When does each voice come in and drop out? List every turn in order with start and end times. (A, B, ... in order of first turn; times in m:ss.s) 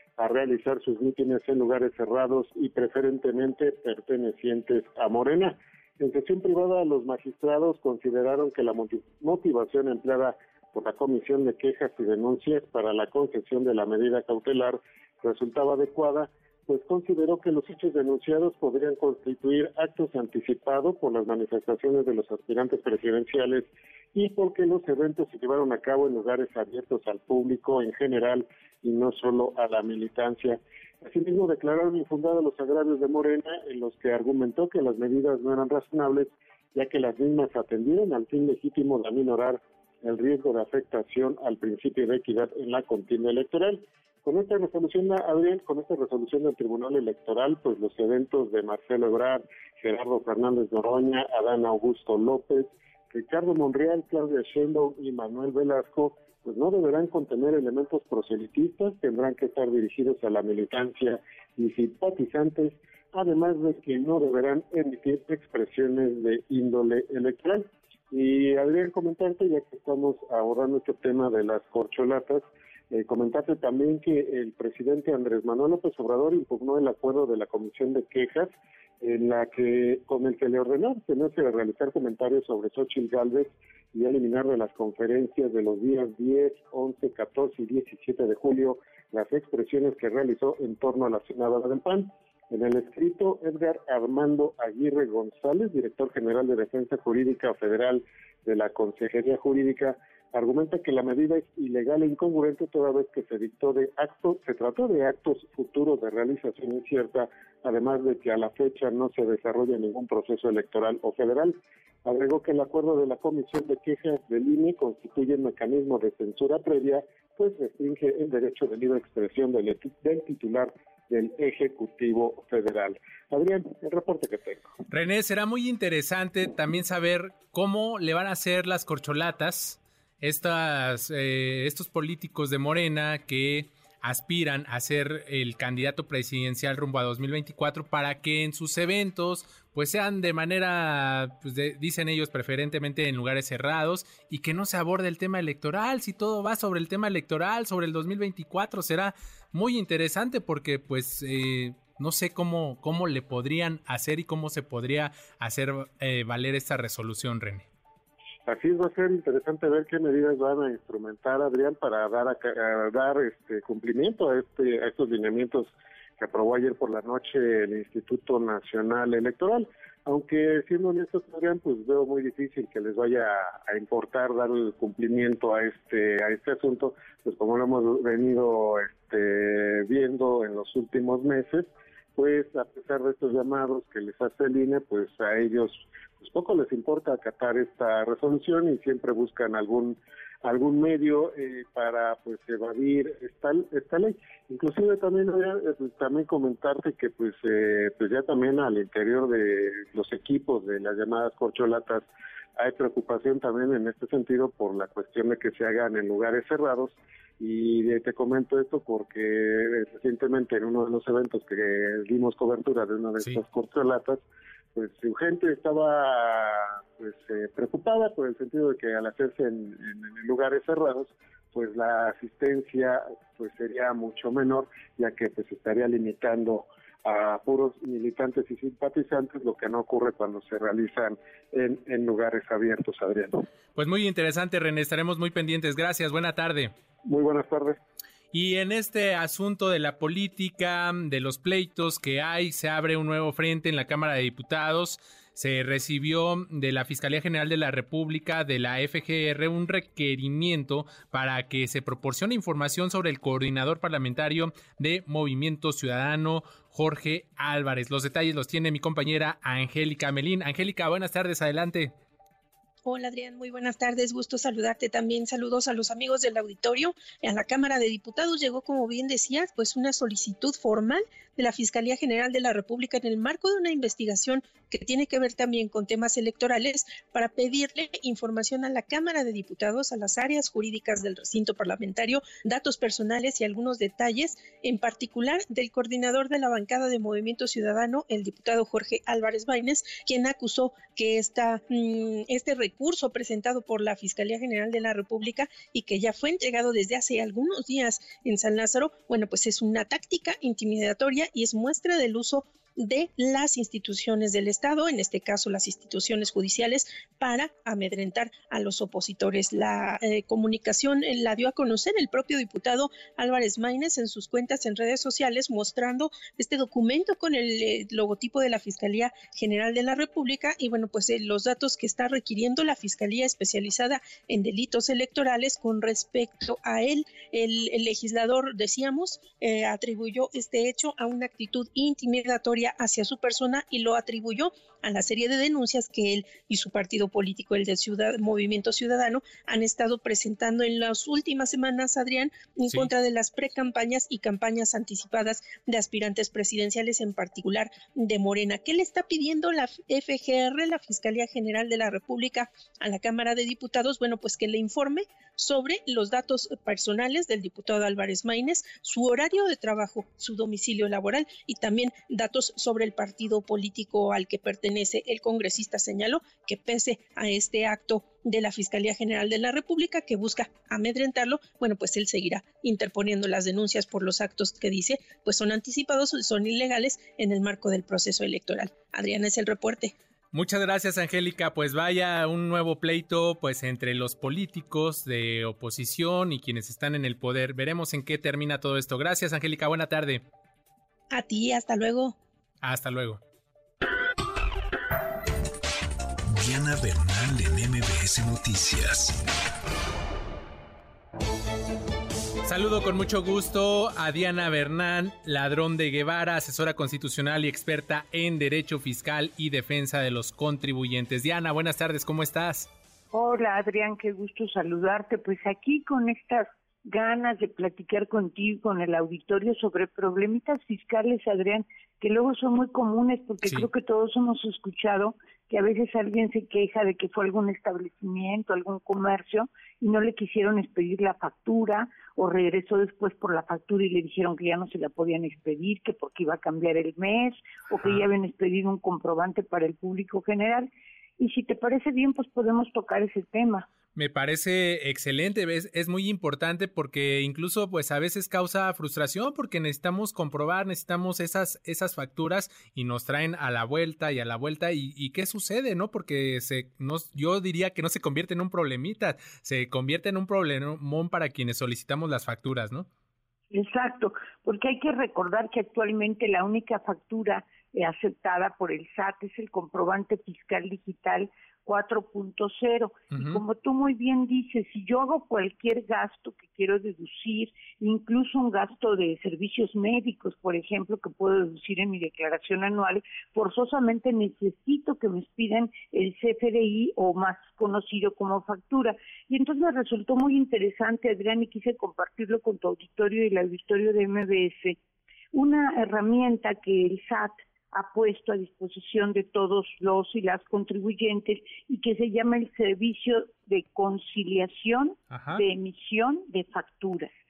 0:00.2-2:04.7 A
2:04.9-2:37.7 B
2:38.5-3:53.5 A
3:53.8-3:56.7 B
3:57.0-3:57.8 A
3:58.3-4:21.9 B
4:22.8-6:19.9 C
6:20.3-6:30.2 B
6:31.1-6:32.2 C
6:32.6-6:33.2 B
6:36.4-6:39.2 D
6:42.4-6:52.7 B
6:53.1-7:23.7 E
7:03.4-7:03.7 B
7:24.0-7:42.9 B
7:43.5-8:14.8 E
7:53.1-7:53.4 B
8:15.3-8:27.1 E
8:25.1-8:25.4 B